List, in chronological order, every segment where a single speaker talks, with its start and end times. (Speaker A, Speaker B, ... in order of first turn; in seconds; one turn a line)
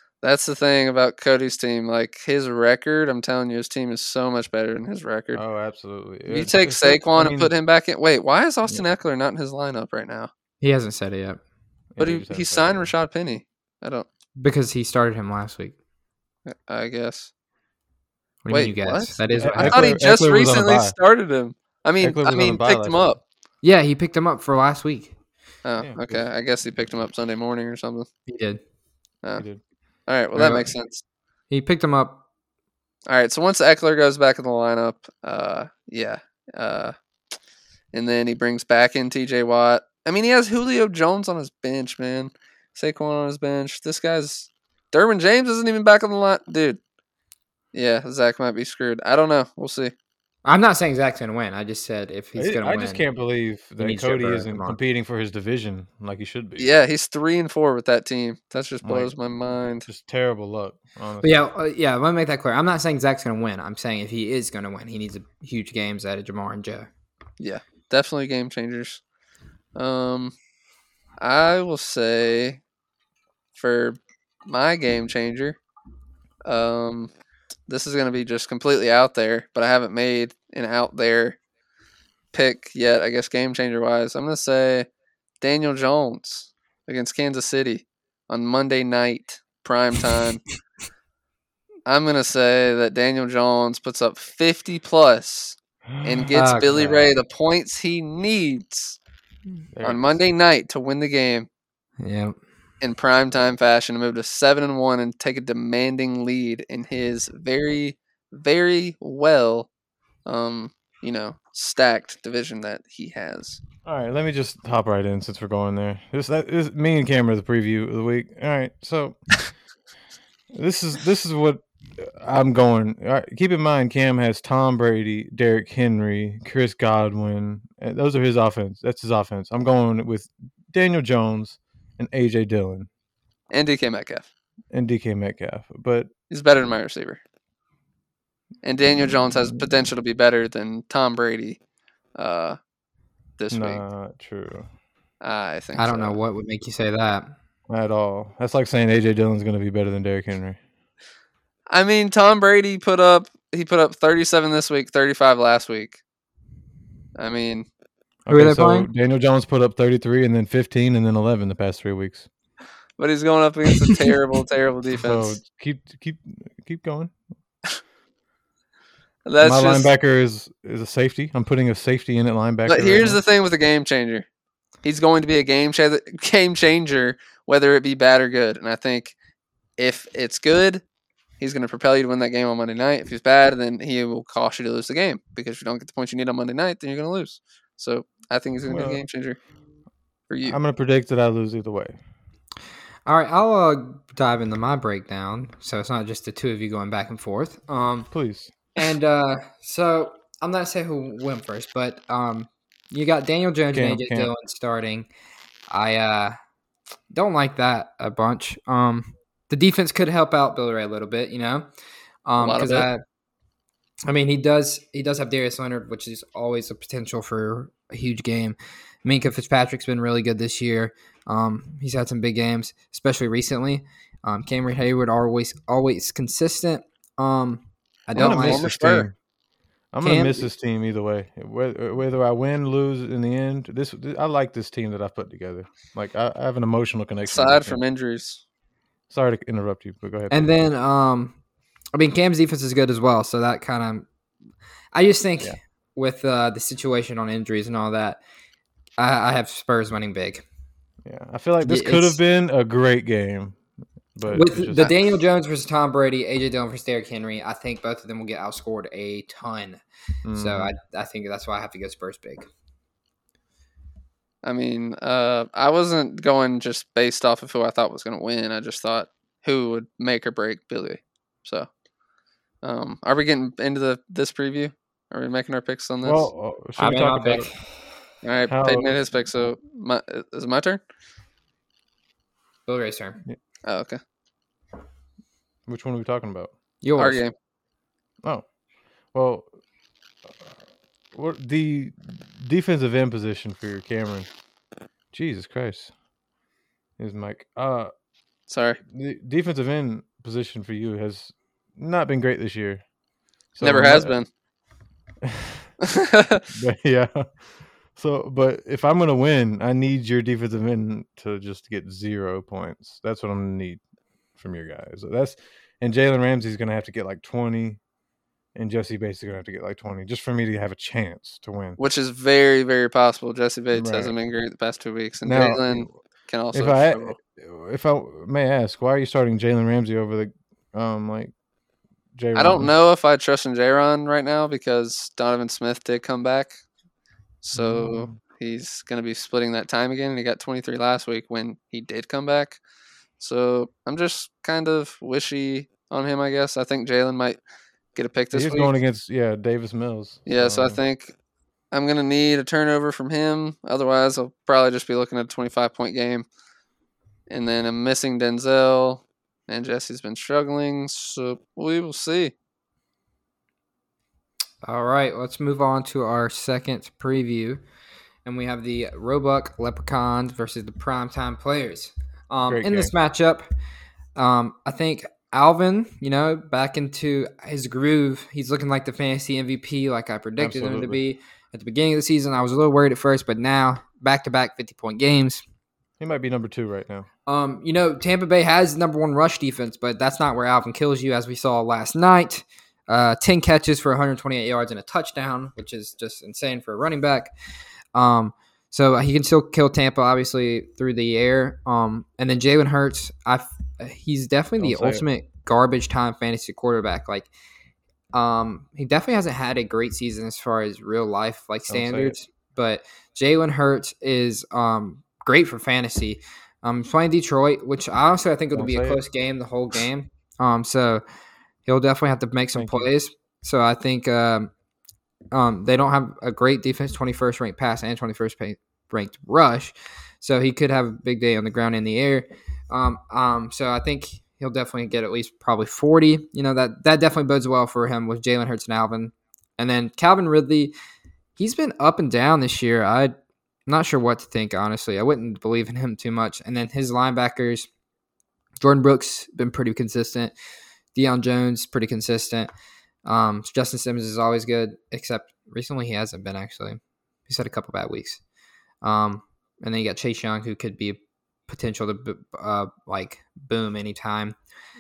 Speaker A: 0.2-5.4
Speaker B: 5.3-7.5
Speaker A: 6.3-10.3
Speaker C: 10.6-11.4
Speaker B: 11.9-12.9
Speaker A: 12.0-14.1
Speaker C: 14.4-15.8
Speaker A: 16.5-17.3
Speaker C: 18.4-19.9
Speaker A: 18.5-23.2
Speaker B: 19.3-20.9
Speaker B: 22.0-23.2
Speaker C: 23.6-25.1
Speaker A: 25.6-28.1
Speaker B: 25.8-26.3
Speaker C: 28.3-28.6
Speaker B: 29.4-29.6
Speaker A: 30.1-31.0
Speaker C: 31.5-32.2
Speaker A: 33.1-37.0
Speaker A: 37.9-46.8
Speaker A: 47.7-49.9
Speaker C: 50.5-53.0
Speaker B: 52.4-56.7
Speaker C: 53.8-54.8
Speaker A: 56.6-59.9
Speaker B: 58.8-59.1
Speaker B: 59.9-61.3
Speaker C: 61.2-66.9
Speaker A: 67.4-69.0
Speaker A: 69.8-70.3
Speaker A: 71.2-72.6
Speaker A: 73.6-75.6
Speaker A: 76.5-77.1
Speaker A: 77.7-81.4
Speaker A: 82.3-84.9
Speaker A: 85.4-90.4
Speaker A: 91.9-99.0
Speaker B: 95.9-96.2
Speaker C: 96.3-97.1
Speaker B: 99.7-100.2
Speaker A: 99.8-101.5
Speaker C: 102.0-102.4
Speaker A: 102.8-109.7
Speaker A: 110.3-113.6
Speaker B: 113.8-119.2
Speaker B: 120.5-132.9
Speaker A: 133.5-134.3
Speaker B: 134.7-136.1
Speaker A: 136.3-137.2
Speaker A: 138.6-141.6
Speaker A: 142.2-142.6
Speaker A: 143.4-143.8
Speaker B: 143.5-144.7
Speaker A: 145.2-146.2
Speaker C: 145.8-147.3
Speaker B: 147.7-150.6
Speaker A: 151.7-156.0
Speaker A: 157.2-157.7
Speaker B: 158.3-162.3
Speaker C: 158.3-158.9
Speaker A: 163.0-165.4
Speaker B: 164.9-167.1
Speaker A: 169.3-169.9
Speaker B: 169.4-173.2
Speaker A: 172.7-174.3
Speaker A: 174.8-179.2
Speaker A: 179.8-180.8
Speaker A: 181.4-189.4
Speaker B: 188.7-189.0
Speaker A: 190.3-190.6
Speaker B: 190.4-192.0
Speaker C: 193.1-198.1
Speaker B: 198.1-198.5
Speaker C: 198.8-205.1
Speaker B: 203.7-204.3
Speaker C: 205.7-206.4
Speaker C: 207.1-211.7
Speaker C: 212.3-213.0
Speaker A: 212.4-212.9
Speaker C: 214.1-228.7
Speaker A: 228.2-229.1
Speaker B: 228.2-229.2
Speaker B: 229.9-237.8
Speaker C: 230.0-230.5
Speaker A: 237.3-238.4
Speaker B: 239.1-240.5
Speaker C: 240.3-241.4
Speaker C: 241.9-244.1
Speaker C: 244.9-248.2
Speaker C: 249.0-250.4
Speaker B: 251.1-253.6
Speaker C: 251.6-252.2
Speaker B: 254.2-254.9
Speaker C: 254.3-259.8
Speaker B: 260.2-260.8
Speaker C: 260.3-262.5
Speaker A: 264.4-271.7
Speaker A: 272.6-276.2
Speaker B: 276.0-277.5
Speaker C: 276.8-277.5
Speaker A: 278.2-280.8
Speaker B: 278.5-279.0
Speaker C: 282.7-283.2
Speaker A: 283.6-284.0
Speaker B: 285.7-286.5
Speaker C: 286.8-287.2
Speaker A: 287.0-287.3
Speaker B: 289.1-289.5
Speaker B: 291.1-294.3
Speaker B: 295.1-295.9
Speaker B: 297.0-297.9
Speaker A: 298.5-298.8
Speaker B: 298.9-302.8
Speaker B: 303.6-304.2
Speaker A: 303.6-304.3
Speaker B: 305.2-305.7
Speaker A: 305.8-306.4
Speaker B: 306.5-307.3
Speaker B: 307.9-313.8
Speaker B: 314.4-317.8
Speaker B: 318.6-321.8
Speaker A: 321.8-327.2
Speaker B: 323.7-324.1
Speaker B: 325.2-325.9
Speaker B: 326.5-331.3
Speaker B: 332.1-332.8
Speaker A: 332.4-336.5
Speaker A: 337.4-342.6
Speaker B: 337.5-338.2
Speaker A: 343.2-347.4
Speaker A: 347.9-348.7
Speaker B: 348.3-350.8
Speaker A: 350.3-351.1
Speaker A: 351.7-356.3
Speaker A: 357.3-362.3
Speaker C: 364.6-367.6
Speaker C: 368.2-373.5
Speaker B: 372.5-372.9
Speaker C: 374.2-385.4
Speaker B: 380.4-381.0
Speaker B: 386.0-387.1
Speaker C: 387.3-397.3
Speaker C: 397.9-407.3
Speaker B: 404.6-405.1
Speaker C: 408.1-421.0
Speaker B: 411.7-412.2
Speaker B: 418.5-419.0
Speaker C: 421.7-424.5
Speaker B: 422.6-422.9
Speaker C: 425.3-440.7
Speaker C: 441.4-443.1
Speaker C: 443.7-447.7
Speaker C: 448.6-450.3
Speaker C: 450.9-452.5
Speaker C: 453.1-458.2
Speaker C: 458.8-464.4